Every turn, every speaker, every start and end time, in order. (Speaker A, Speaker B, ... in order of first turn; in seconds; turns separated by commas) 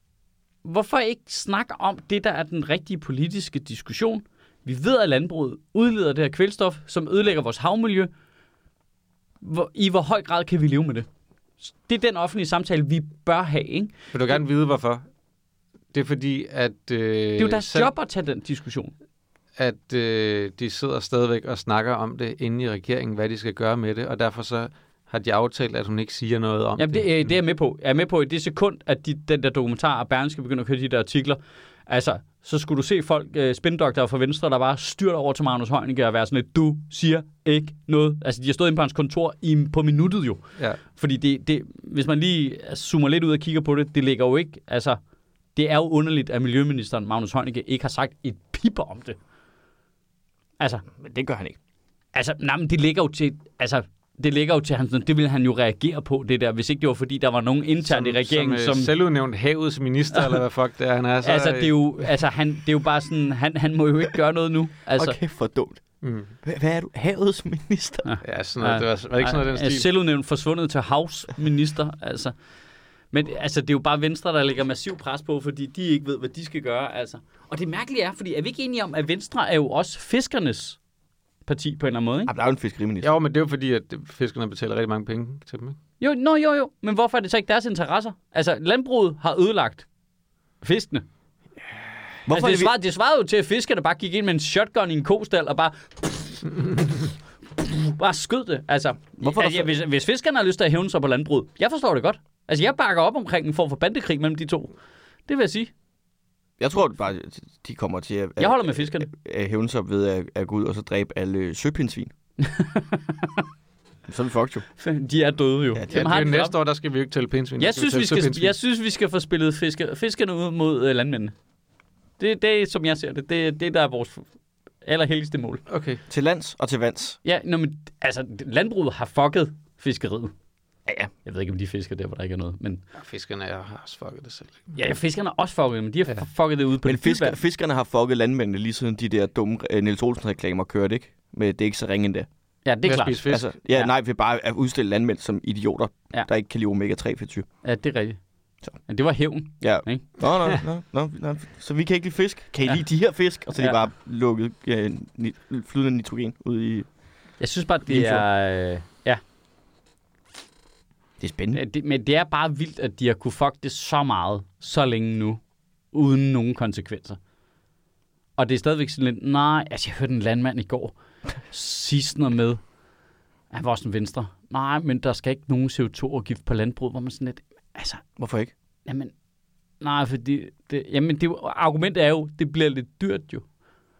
Speaker A: 0.6-8.1, Speaker A: 9.4-11.1, Speaker A: 11.6-13.9, Speaker B: 14.1-15.1, Speaker B: 15.9-17.9, Speaker A: 17.4-18.9, Speaker B: 19.6-27.3, Speaker A: 26.8-45.0, Speaker A: 45.6-49.2, Speaker C: 50.9-51.6, Speaker A: 52.1-58.9, Speaker B: 57.9-62.0, Speaker A: 60.1-60.4, Speaker A: 61.2-65.2, Speaker C: 65.0-65.8, Speaker B: 66.0-66.3, Speaker C: 66.4-68.1, Speaker A: 68.0-72.3, Speaker B: 68.2-69.9, Speaker A: 73.1-80.8, Speaker A: 81.5-82.3, Speaker C: 82.3-83.1, Speaker B: 83.0-85.8, Speaker A: 86.0-89.9, Speaker A: 90.6-91.0, Speaker C: 92.3-92.7, Speaker A: 92.3-96.7, Speaker A: 97.6-104.7, Speaker C: 99.2-99.7, Speaker A: 105.3-105.7, Speaker C: 106.6-112.1, Speaker A: 108.4-109.1, Speaker A: 112.4-113.4, Speaker C: 114.1-114.6, Speaker A: 114.8-116.6, Speaker C: 115.8-116.3, Speaker B: 115.9-118.5, Speaker A: 117.6-121.3, Speaker A: 122.2-124.3, Speaker A: 124.8-125.6, Speaker B: 125.7-126.0, Speaker C: 126.1-127.2, Speaker A: 127.2-130.3, Speaker A: 131.2-132.8, Speaker B: 133.0-134.8, Speaker A: 134.8-137.4, Speaker C: 136.8-142.3, Speaker A: 142.6-143.9, Speaker B: 142.8-143.5, Speaker C: 143.3-147.5, Speaker A: 147.6-148.2, Speaker A: 148.9-150.1, Speaker C: 149.6-156.9, Speaker A: 157.4-159.2, Speaker C: 157.9-158.3, Speaker C: 161.2-161.6, Speaker A: 161.5-165.4, Speaker A: 165.9-167.2, Speaker A: 168.4-170.9, Speaker A: 171.5-172.6, Speaker A: 173.5-178.0, Speaker C: 178.2-178.5, Speaker A: 178.9-179.1, Speaker A: 179.8-183.4